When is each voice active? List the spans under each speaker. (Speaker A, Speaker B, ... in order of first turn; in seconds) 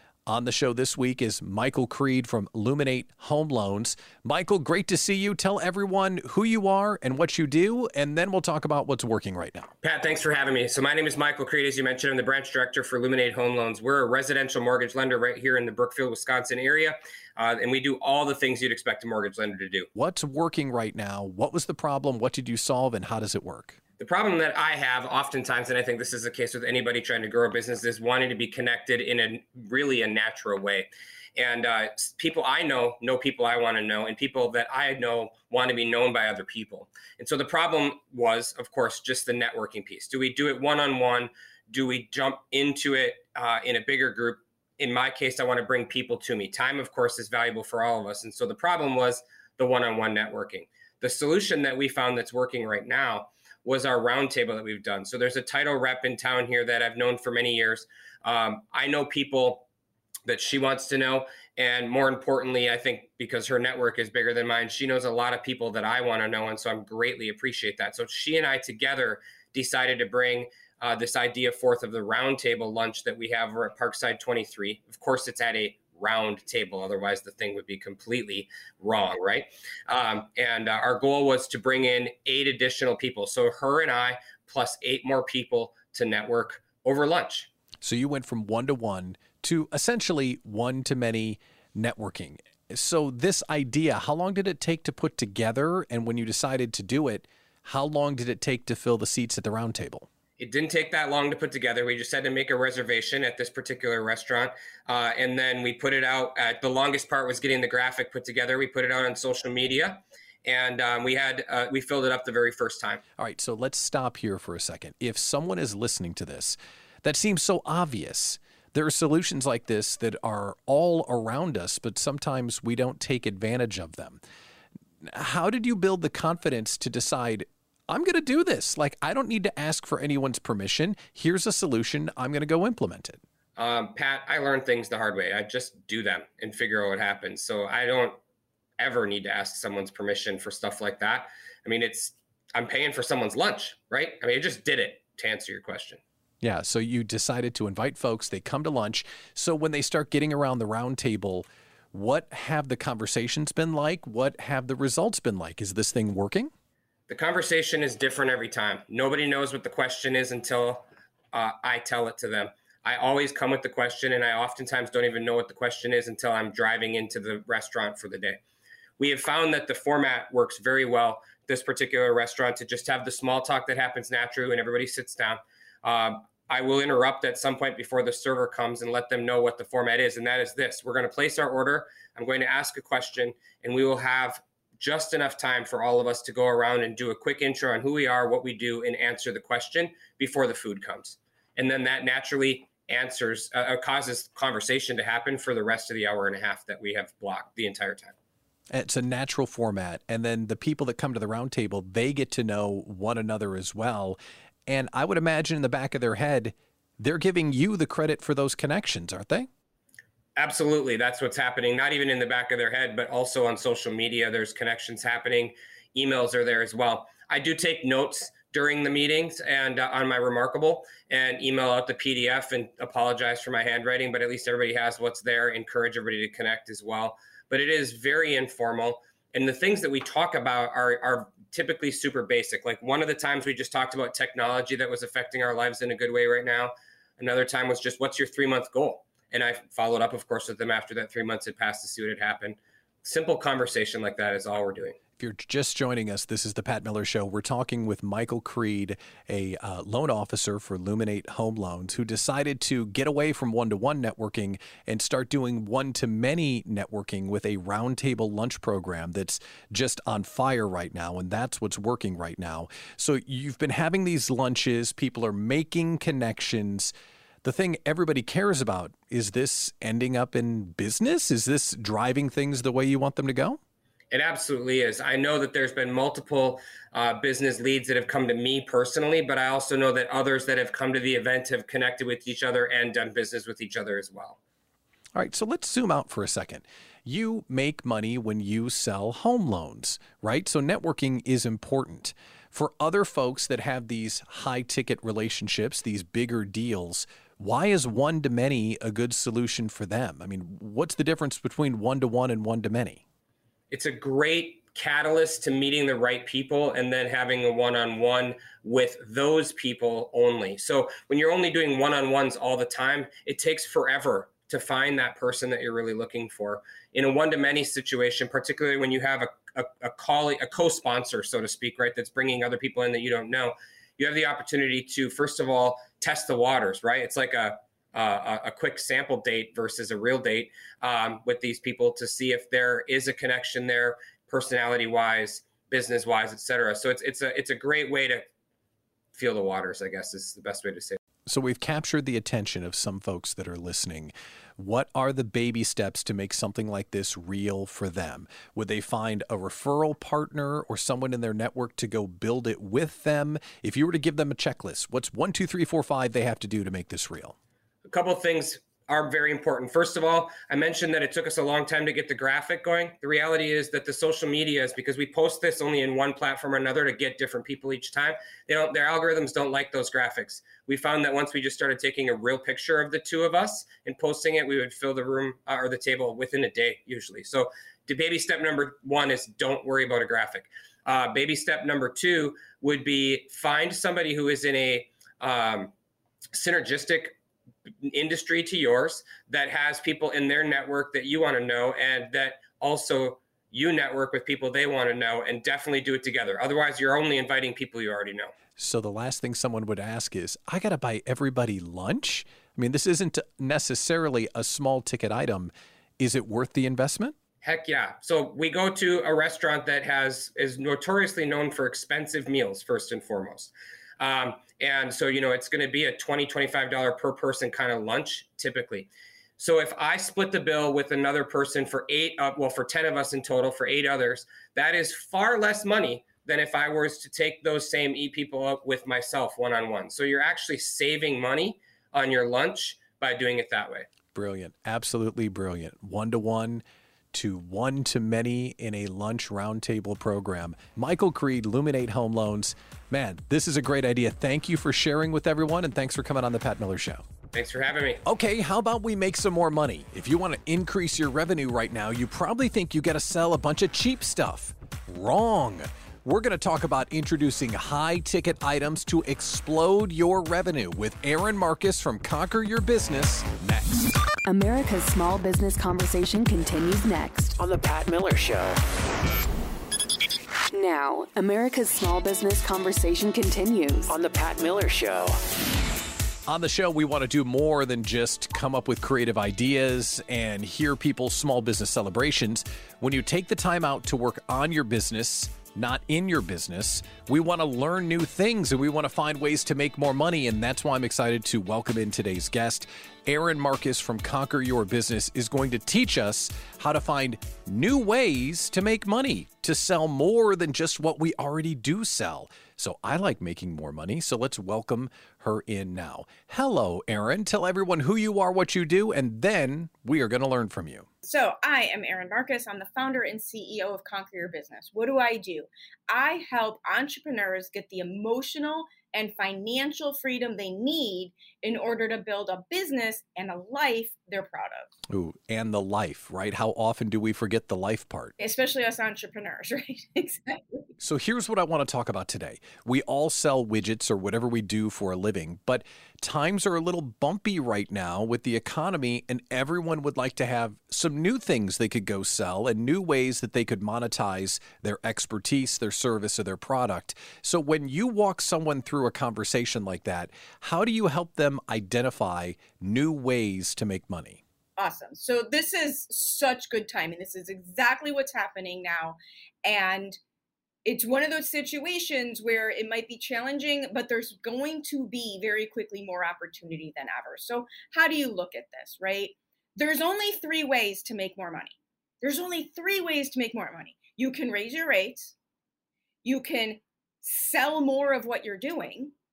Speaker A: 0.3-9.7, 19.9-23.8, 87.8-100.1, 113.2-124.2, 125.0-133.2, 146.4-156.5, 198.7-209.5, 245.2-266.9, 267.4-273.6, 285.1-303.0, 341.2-357.4, 398.6-407.1, 434.1-447.0, 448.1-463.8, 476.3-510.9, 524.9-528.1, 530.8-554.2
Speaker B: 9.8-19.9, 24.0-59.7, 60.2-87.5, 100.4-113.0, 133.6-138.2, 138.8-146.0, 157.1-168.4, 169.0-198.1, 210.4-245.0, 274.1-284.4, 303.7-338.2, 339.1-341.0, 357.8-385.7, 386.3-387.1, 387.8-398.3, 407.4-433.9, 447.3-448.0
Speaker C: 464.2-467.3, 470.5-473.9
Speaker D: 467.4-468.6, 473.9-475.2
Speaker E: 511.0-524.7, 528.2-530.7, 554.6-560.0, 560.6-575.1, 576.0-578.9